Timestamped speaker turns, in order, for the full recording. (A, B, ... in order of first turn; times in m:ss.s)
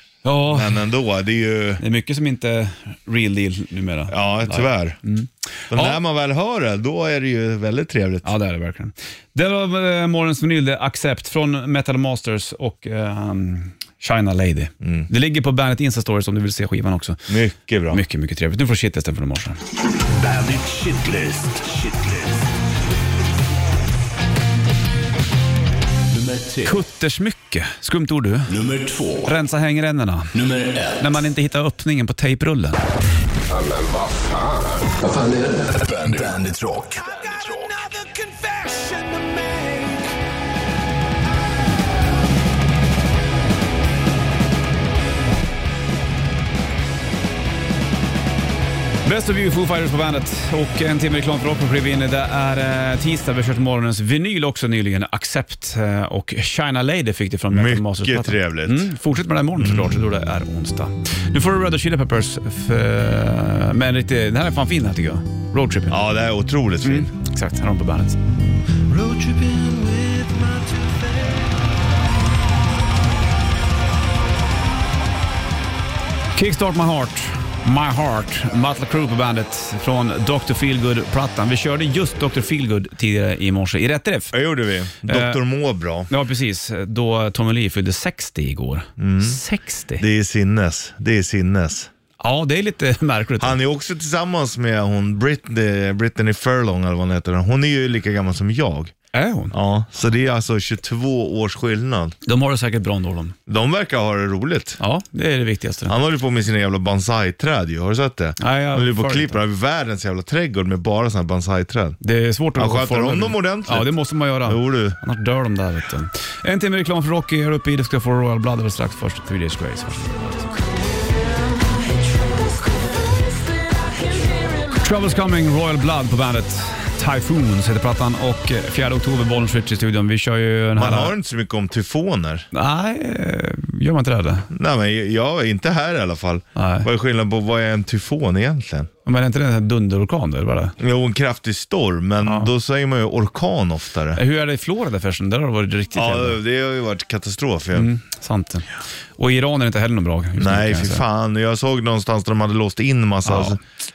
0:00.2-0:00.8 A
0:00.4-0:01.8 B
0:01.8-0:06.0 A
0:04.1-0:05.0 B
0:05.7-0:08.3 B
0:08.2-0:17.3 A
0:14.8-0:15.1 B
0:17.3-0:18.0 B
0:17.9-0:19.6 A
0:19.9-0:22.5 C
0:26.1-0:26.8 C
0:26.6-0:28.5 A
0:28.5-0:29.3 C
0:29.2-0:30.3 A
0:30.3-0:31.2 C
0:31.0-0:32.8 A
0:33.5-0:40.0 C
0:49.0-1:06.0 A
0:57.5-0:58.9 B
0:59.6-1:00.0 B
1:05.9-1:07.1 B
1:06.8-1:08.2 A
1:08.9-1:10.4 B
1:16.3-1:24.3 A
1:24.3-1:26.1 B
1:25.0-1:25.4 A
1:26.1-1:30.0 A
1:29.0-1:29.4 B
1:30.0-1:31.9 B
1:32.2-1:33.5 A
1:33.4-1:38.9 B
1:39.1-1:39.5 A
1:39.5-1:42.2 B
1:42.2-1:43.4 A
1:43.5-1:44.8 B
1:44.8-1:45.9 A
1:45.9-1:52.0 B
1:48.4-1:49.4 A
1:52.0-2:00.6 A
1:52.6-1:53.9 B
1:54.4-1:55.0 B
2:04.6-2:11.1 A
2:10.8-2:12.5 B
2:12.5-2:14.5 A
2:14.5-2:18.9 B
2:16.6-2:16.9 A
2:19.0-2:20.8 A
2:20.8-2:24.2 B
2:22.2-2:22.5 A
2:24.1-2:26.4 A
2:25.9-2:27.9 B
2:27.7-2:31.0 A
2:30.4-2:33.6 B
2:33.2-2:33.6 A